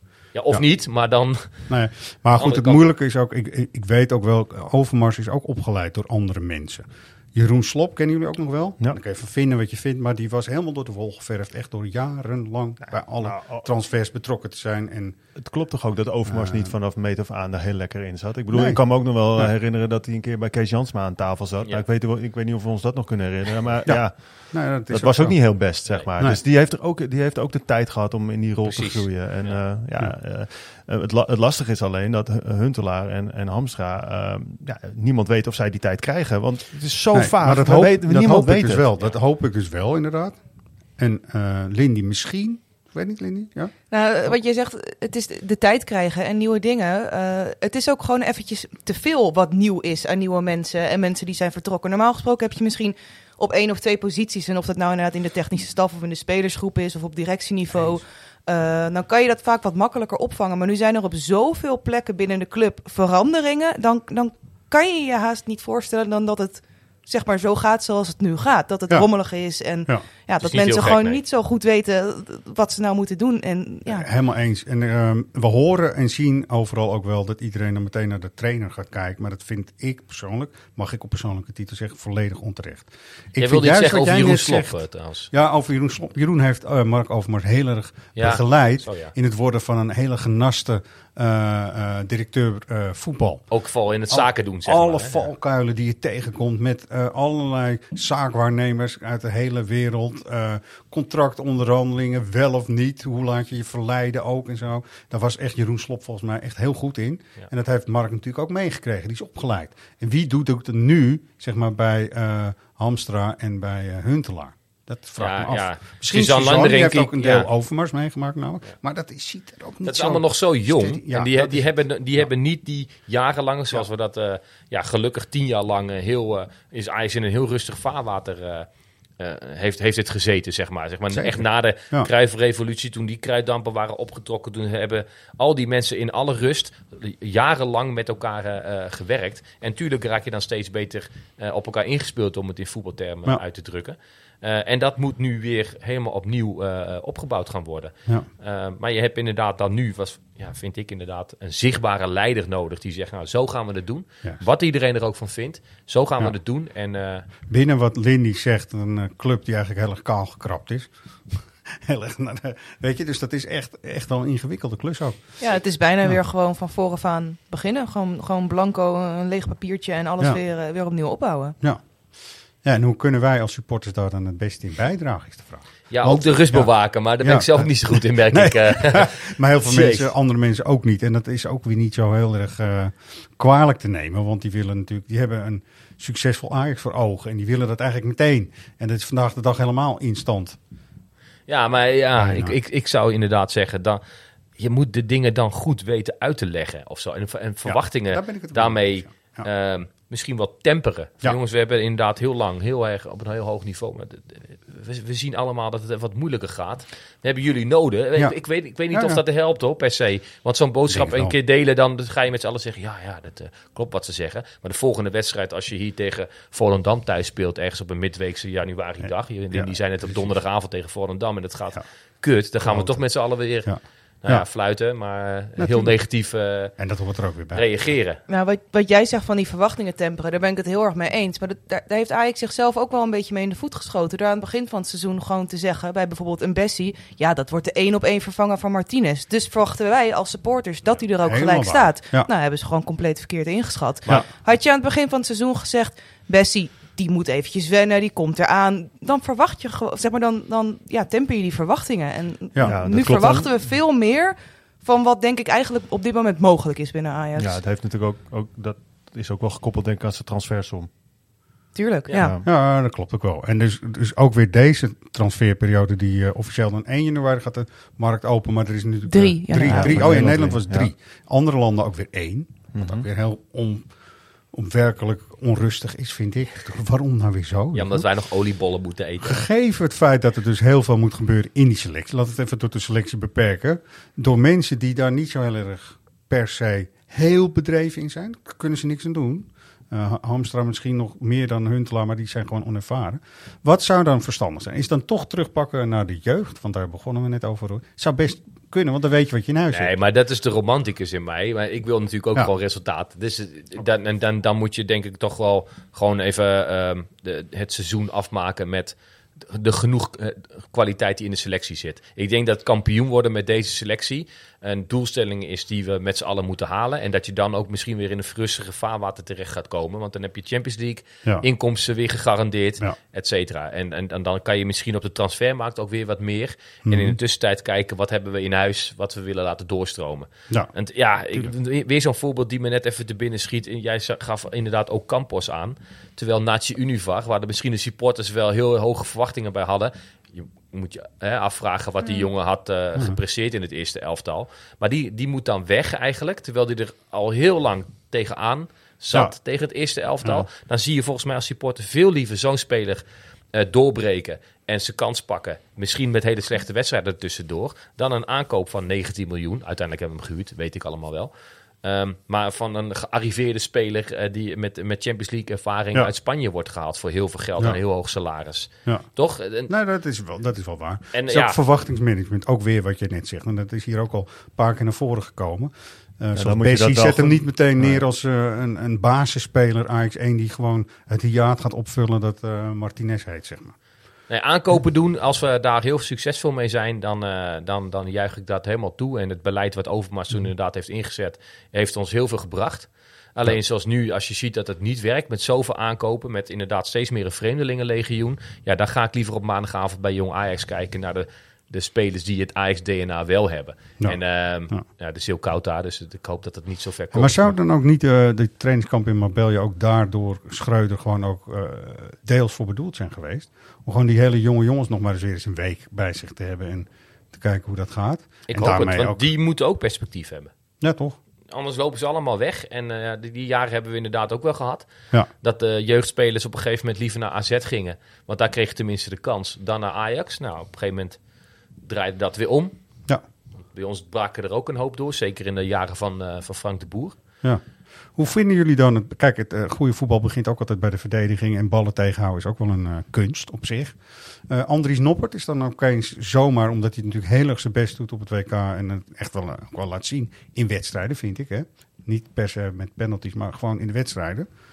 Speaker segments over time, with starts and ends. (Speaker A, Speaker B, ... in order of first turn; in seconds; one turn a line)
Speaker A: 0.3-1.8
Speaker B: 1.7-15.2
Speaker A: 2.4-2.9
Speaker C: 13.2-13.7
Speaker C: 15.4-38.9
Speaker B: 16.2-16.7
Speaker B: 18.5-18.8
Speaker B: 23.9-26.4
Speaker A: 28.6-29.6
Speaker B: 37.1-40.4
Speaker B: 41.0-43.7
Speaker D: 43.9-74.1
Speaker A: 70.4-71.2
Speaker B: 73.8-93.4
Speaker A: 83.4-85.3
Speaker A: 88.2-89.1
Speaker A: 93.5-95.2
Speaker B: 94.1-121.7
Speaker A: 115.2-117.5
Speaker A: 119.8-128.7
Speaker A: 129.2-157.2
Speaker B: 131.1-132.1
Speaker B: 157.5-160.9
Speaker B: 161.7-165.4
Speaker D: 165.4-171.6
Speaker B: 172.6-190.6
Speaker A: 175.9-180.1
Speaker A: 191.5-194.0
Speaker B: 192.2-192.6
Speaker A: 194.6-223.7
Speaker B: 197.7-199.5
Speaker B: 208.9-209.2
Speaker B: 210.9-211.3
Speaker B: 219.0-220.4
Speaker B: 222.6-223.0
Speaker B: 223.6-224.4
Speaker A: 224.2-226.7
Speaker B: 225.6-226.0
Speaker B: 226.8-227.7
Speaker A: 227.5-228.2
Speaker D: 228.3-257.6
Speaker B: 241.2-242.3
Speaker C: 252.6-253.5
Speaker C: 257.4-260.9
Speaker D: 261.7-262.3
Speaker C: 262.2-262.4
Speaker B: 262.4-273.9
Speaker D: 269.1-269.9
Speaker C: 269.7-270.9
Speaker C: 272.7-273.1
Speaker B: 274.5-278.1
Speaker A: 277.7-279.4
Speaker B: 279.2-299.9
Speaker A: 299.7-361.3
Speaker B: 326.9-327.2
Speaker A: 361.8-369.7
Speaker B: 369.7-383.7
Speaker A: 371.1-371.6
Speaker C: 376.4-378.0
Speaker A: 384.3-407.5
Speaker B: 407.1-419.3
Speaker A: 418.5-420.5
Speaker B: 420.8-421.2
Speaker A: 421.5-424.9
Speaker A: 425.4-431.2
Speaker A: 431.8-432.7
Speaker A: 433.7-437.1
Speaker B: 438.1-444.0
Speaker B: 444.5-454.5